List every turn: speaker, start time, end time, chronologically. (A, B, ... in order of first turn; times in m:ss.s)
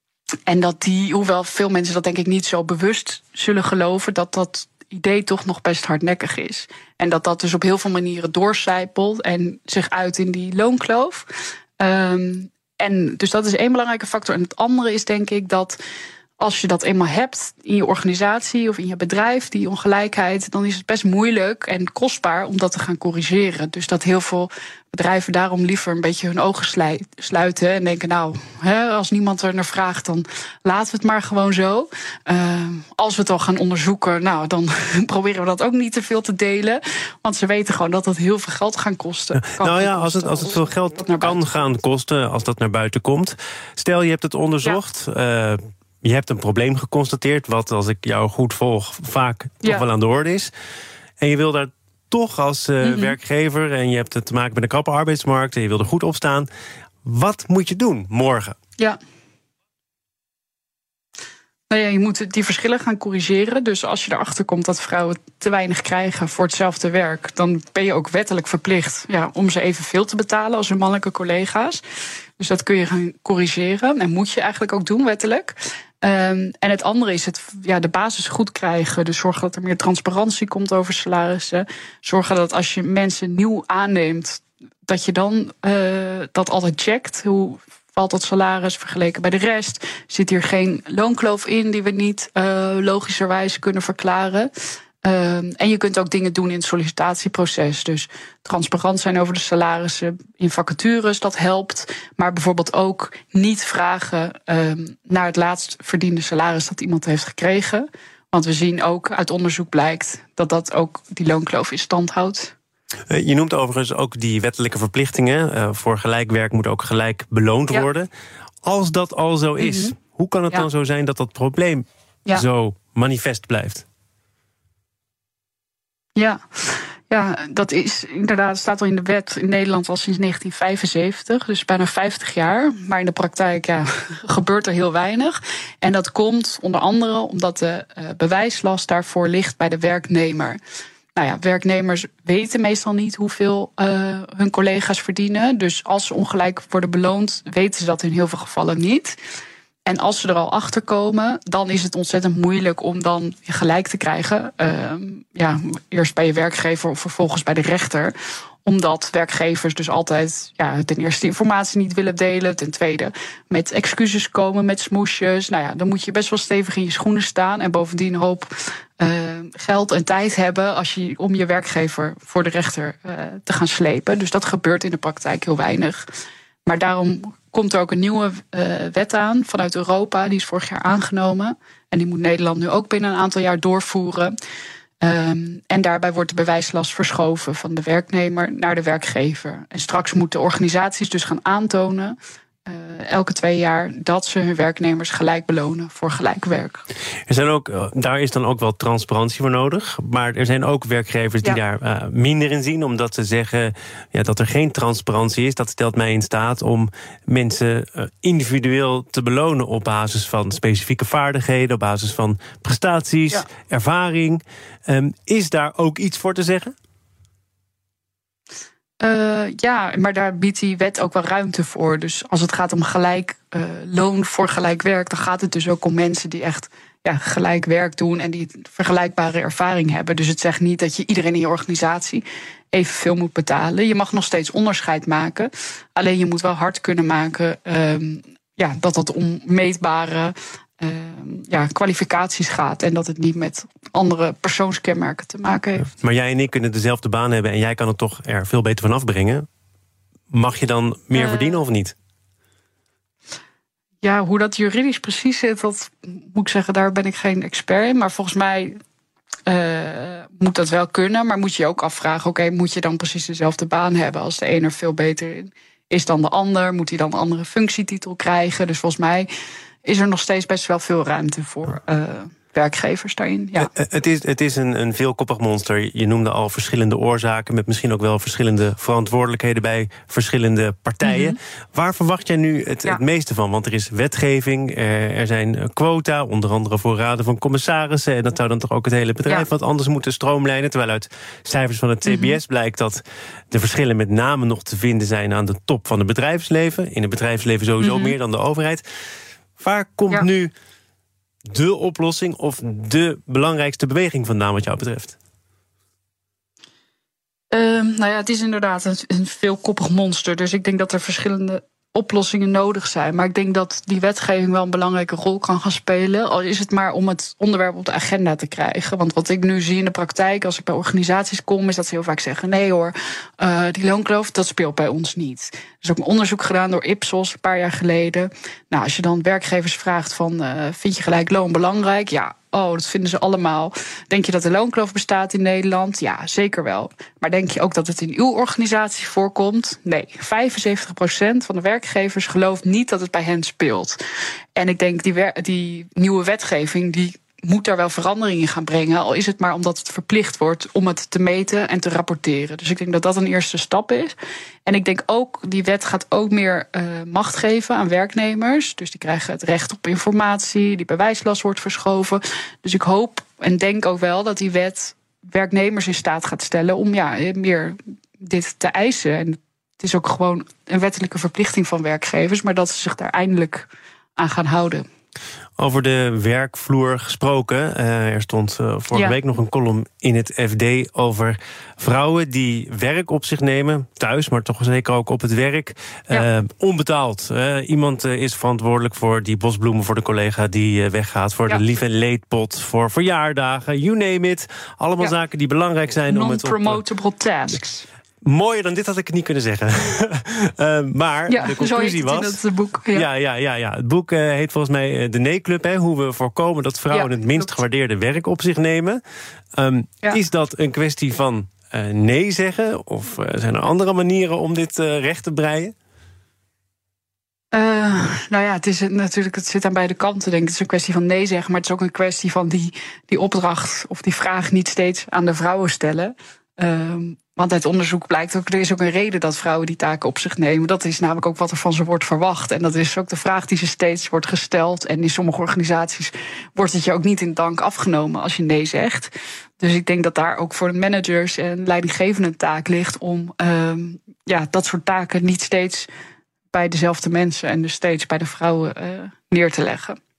0:00.5-0:15.8 A
0:16.4-0:41.5 A
0:39.3-0:50.5 B
0:51.2-0:56.5 B
0:52.8-0:53.1 A
0:57.0-0:58.6 B
1:01.7-1:11.8 A
1:12.4-1:34.5 A
1:35.0-1:52.5 A
1:53.1-1:58.1 B
1:58.6-2:03.8 B
1:59.6-1:59.9 A
2:06.2-2:20.6 A
2:21.2-2:29.2 A
2:29.8-2:38.1 A
2:38.6-2:56.0 A
2:56.6-3:04.4 A
3:05.0-3:12.2 A
3:12.7-3:16.8 A
3:17.3-3:36.7 B
3:39.0-4:05.9 A
4:05.9-4:09.4 B
4:10.3-4:11.9 B
4:11.1-4:11.6 A
4:14.0-4:18.8 A
4:19.5-4:29.3 A
4:29.8-4:33.7 A
4:33.6-4:58.8 B
4:41.0-4:41.3 A
4:52.0-4:52.4 A
4:57.8-4:58.1 A
4:59.6-5:00.5 B
5:01.5-5:05.1 B
5:07.5-5:44.0 A
5:44.6-5:54.1 A
5:54.6-6:14.8 A
6:15.6-6:36.8 B
6:18.9-6:19.2 A
6:36.1-6:37.8 A
6:38.2-6:42.4 B
6:41.3-6:43.1 A
6:42.9-6:49.0 B
6:46.9-6:47.6 A
6:49.6-6:55.7 B
6:57.5-7:25.9 A
7:26.5-7:30.0 A